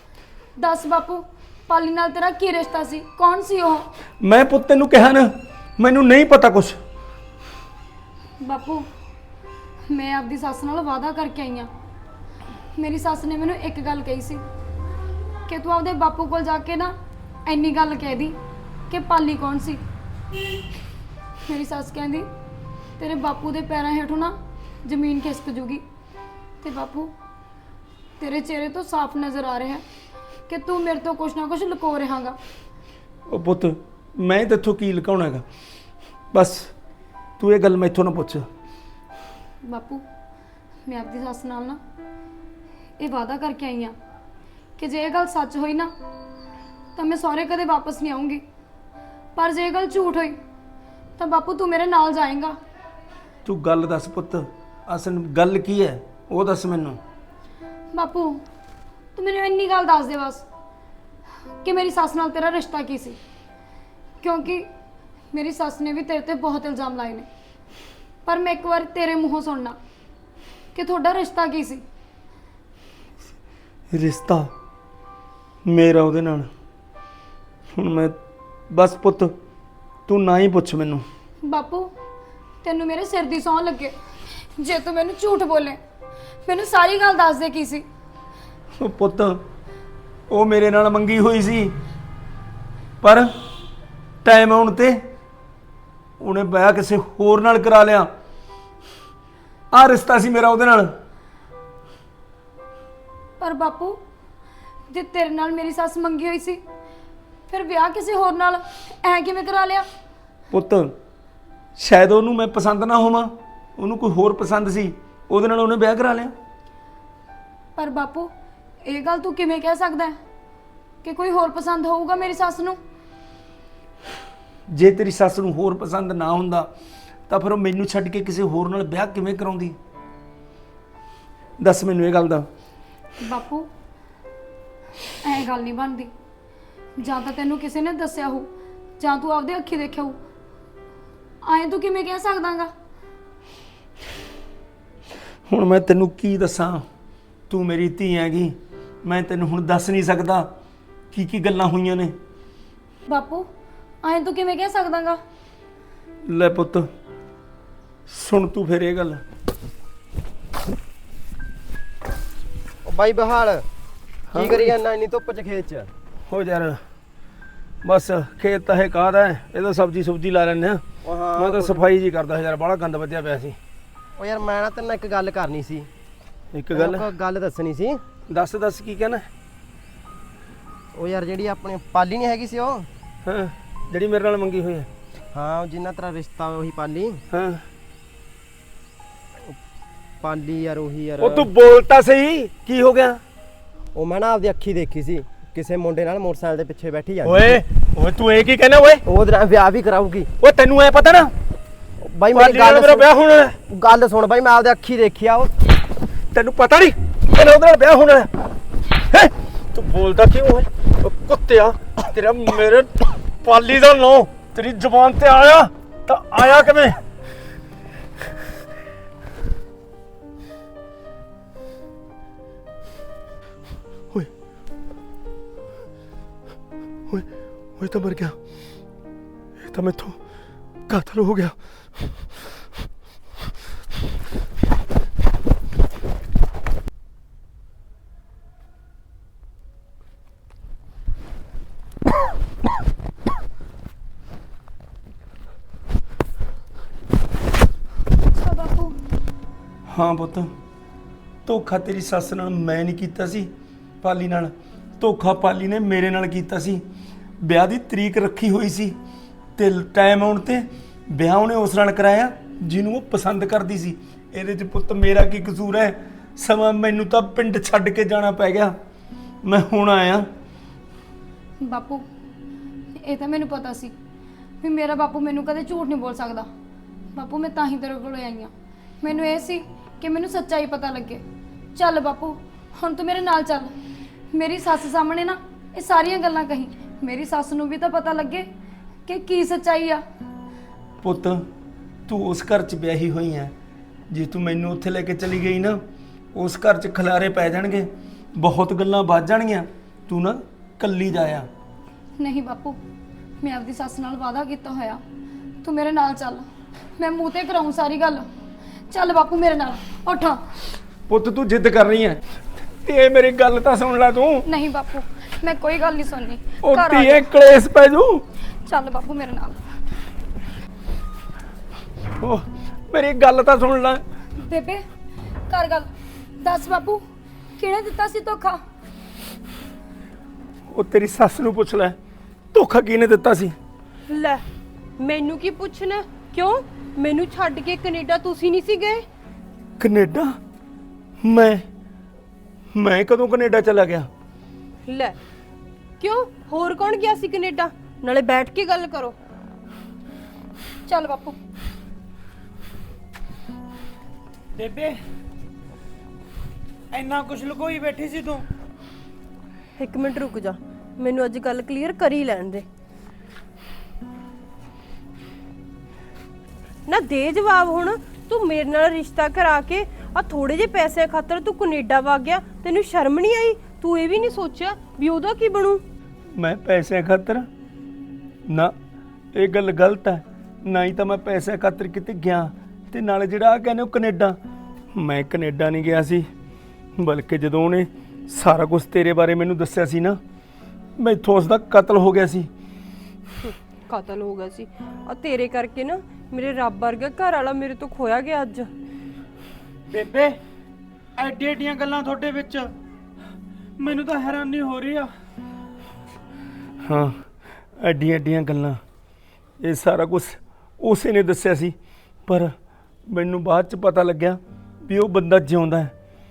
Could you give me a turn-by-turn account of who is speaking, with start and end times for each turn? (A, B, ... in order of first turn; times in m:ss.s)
0:00.6-0:03.9 A
0:04.2-0:06.8 B
0:08.4-0:08.9 A
0:09.9-0:11.7 A
0:12.8-0:14.4 A
0:15.5-0:16.9 A
0:17.5-0:18.4 A
0:18.9-0:19.8 A
0:21.5-0:22.3 A
0:23.0-0:25.8 A
0:26.6-0:27.1 A
0:28.2-0:29.8 A
0:30.5-0:32.4 A
0:33.3-0:35.4 B
0:36.3-0:36.7 B
0:37.4-0:38.4 B
0:39.6-0:40.0 A
0:40.8-0:41.8 A
0:43.0-0:43.9 A
0:44.8-0:45.9 A
0:47.0-0:48.4 A
0:49.4-0:50.4 A
0:51.2-0:52.6 A
0:53.4-0:57.0 B
0:57.9-0:58.4 A
0:59.2-1:00.5 A
1:01.6-1:03.2 A
1:04.2-1:04.7 A
1:05.3-1:07.3 A
1:08.2-1:09.8 A
1:10.7-1:11.8 A
1:13.9-1:14.5 B
1:15.7-1:16.5 B
1:17.7-1:18.1 B
1:18.7-1:19.3 B
1:20.1-1:21.0 B
1:21.4-1:21.9 A
1:22.6-1:25.8 A
1:26.5-1:27.8 A
1:28.8-1:29.4 B
1:30.3-1:31.7 B
1:34.2-1:35.0 B
1:36.2-1:38.1 B
1:39.7-1:40.9 B
1:43.4-1:44.0 A
1:44.9-1:46.6 A
1:47.5-1:49.8 A
1:50.5-1:50.9 B
1:51.8-1:56.3 B
1:57.8-1:58.3 A
1:58.8-2:00.2 A
2:01.0-2:02.8 A
2:04.7-2:06.7 B
2:07.3-2:09.8 B
2:11.6-2:12.5 B
2:13.2-2:13.7 A
2:15.2-2:16.1 A
2:17.0-2:18.5 A
2:19.0-2:20.2 A
2:21.4-2:22.7 A
2:25.5-2:26.8 B
2:27.5-2:30.4 B
2:31.1-2:32.1 B
2:33.1-2:33.5 A
2:34.0-2:35.2 A
2:36.3-2:36.8 B
2:38.1-2:39.2 B
2:42.8-2:43.6 C
2:44.3-2:44.7 B
2:44.3-2:45.9 C
2:46.3-2:46.8 B
2:47.8-2:50.8 B
2:51.0-2:51.8 C
2:51.4-2:53.6 B
2:54.2-2:55.9 C
2:56.5-2:57.0 B
2:56.7-2:58.0 C
2:58.3-2:59.2 B
3:00.9-3:02.9 C
3:03.2-3:04.9 B
3:05.3-3:07.2 C
3:07.3-3:07.6 B
3:10.2-3:11.5 C
3:11.2-3:13.2 B
3:13.9-3:17.4 C
3:17.2-3:19.0 B
3:19.1-3:20.3 C
3:20.4-3:21.3 B
3:22.0-3:23.1 C
3:22.3-3:23.6 B
3:23.7-3:25.5 C
3:26.3-3:28.3 B
3:29.1-3:37.0 B
3:47.8-3:48.4 B
3:49.6-3:50.2 B
3:50.9-3:51.6 B
4:08.4-4:08.9 A
4:09.9-4:10.5 B
4:11.4-4:13.5 B
4:14.0-4:16.8 B
4:17.4-4:18.9 B
4:19.6-4:28.7 B
4:29.4-4:30.2 B
4:31.6-4:32.0 A
4:33.0-4:33.9 A
4:34.6-4:36.5 A
4:37.1-4:41.2 A
4:41.8-4:43.7 A
4:44.3-4:48.5 A
4:49.1-4:50.0 A
4:51.0-4:51.4 B
4:52.1-4:53.5 B
4:54.1-4:55.8 B
4:56.3-5:01.5 B
5:02.2-5:02.8 A
5:03.4-5:05.0 A
5:05.6-5:08.3 A
5:08.9-5:10.4 A
5:11.1-5:12.2 B
5:12.8-5:14.5 B
5:14.4-5:17.3 A
5:16.6-5:18.2 B
5:18.6-5:19.6 A
5:22.2-5:24.0 B
5:24.4-5:24.8 A
5:25.5-5:27.0 A
5:27.6-5:28.6 A
5:30.7-5:32.0 B
5:32.5-5:33.6 B
5:34.1-5:34.4 D
5:35.0-5:39.0 D
5:39.8-5:40.4 B
5:41.2-5:41.6 B
5:42.7-5:44.1 B
5:44.9-5:45.2 D
5:46.0-5:49.2 D
5:50.9-5:51.4 A
5:54.6-5:55.0 E
5:56.9-5:58.4 E
5:59.8-6:02.6 D
6:06.9-6:15.8 D
6:16.4-6:17.5 B
6:18.5-6:18.7 B
6:19.3-6:24.4 B
6:24.9-6:26.3 B
6:27.0-6:30.2 B
6:31.0-6:32.5 B
6:33.4-6:38.7 D
6:39.9-6:40.4 E
6:41.2-6:42.7 E
6:43.8-6:45.1 E
6:46.8-6:47.1 B
6:47.8-6:48.8 B
6:49.6-6:51.8 B
6:52.3-6:52.5 B
6:53.1-6:55.9 B